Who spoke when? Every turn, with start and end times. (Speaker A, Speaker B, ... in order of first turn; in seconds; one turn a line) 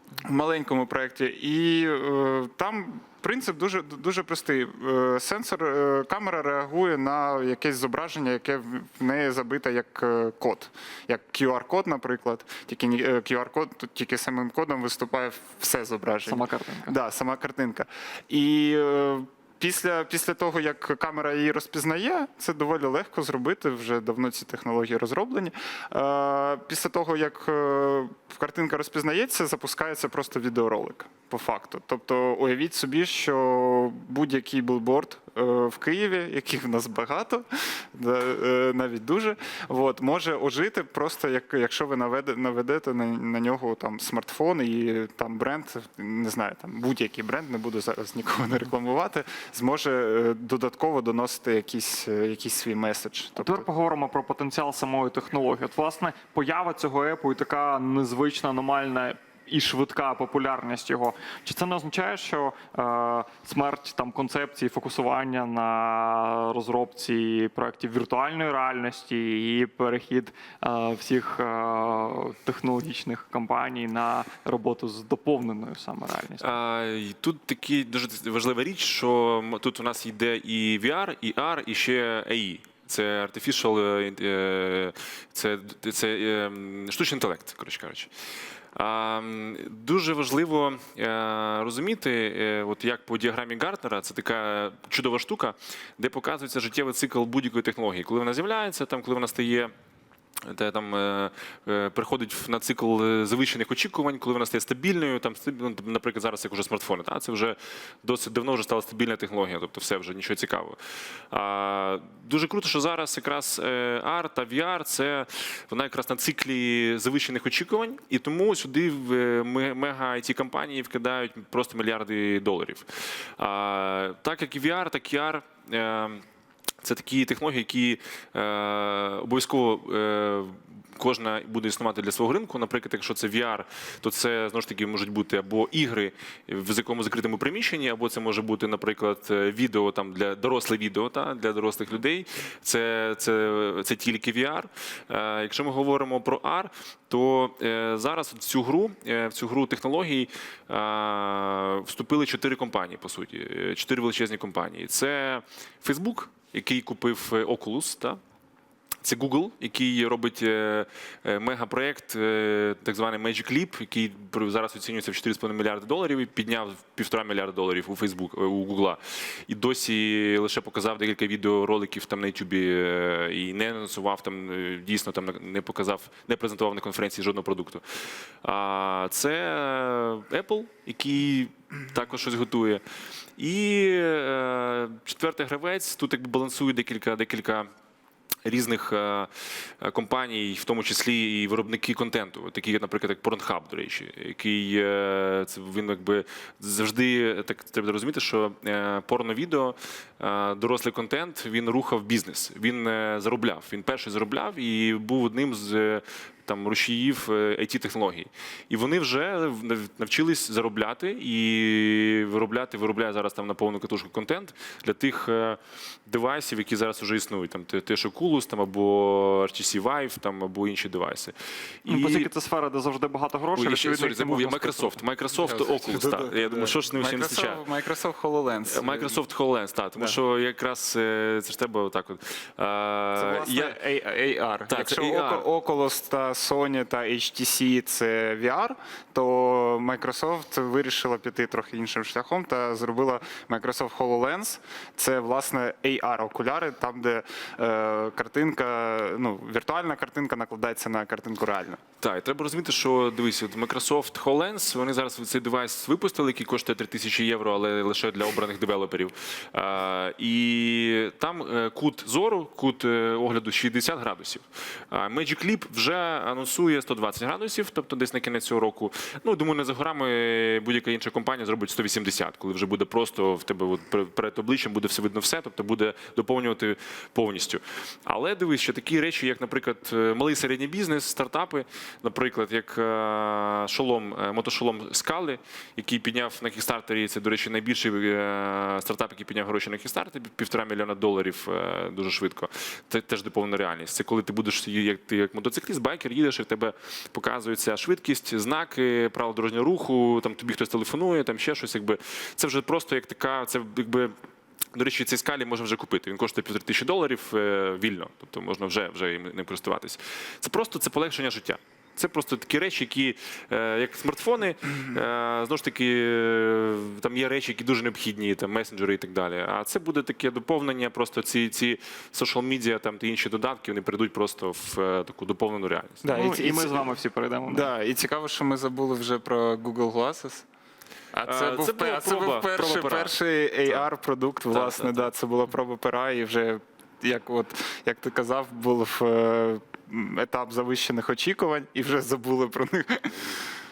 Speaker A: 0.3-53.6
Speaker B: 16.2-16.9
Speaker B: 53.4-76.6
Speaker C: 76.4-88.1
Speaker C: 88.8-99.7
Speaker C: 100.5-110.8
Speaker C: 111.3-122.9
Speaker C: 123.4-126.2
Speaker C: 126.8-158.2
Speaker C: 159.0-177.8
Speaker C: 178.4-182.8
Speaker C: 183.4-187.7
Speaker C: 188.4-189.3
Speaker C: 189.8-221.3
Speaker C: 221.8-222.3
Speaker B: 221.9-224.9
Speaker C: 223.6-227.6
Speaker A: 225.3-229.2
Speaker C: 228.7-233.8
Speaker A: 233.2-251.8
Speaker C: 234.7-235.4
Speaker C: 252.0-304.1
Speaker C: 304.7-326.1
Speaker A: 326.0-326.9
Speaker B: 326.1-327.7
Speaker A: 327.5-330.4
Speaker A: 331.1-343.4
Speaker C: 331.2-333.1
Speaker C: 334.5-335.1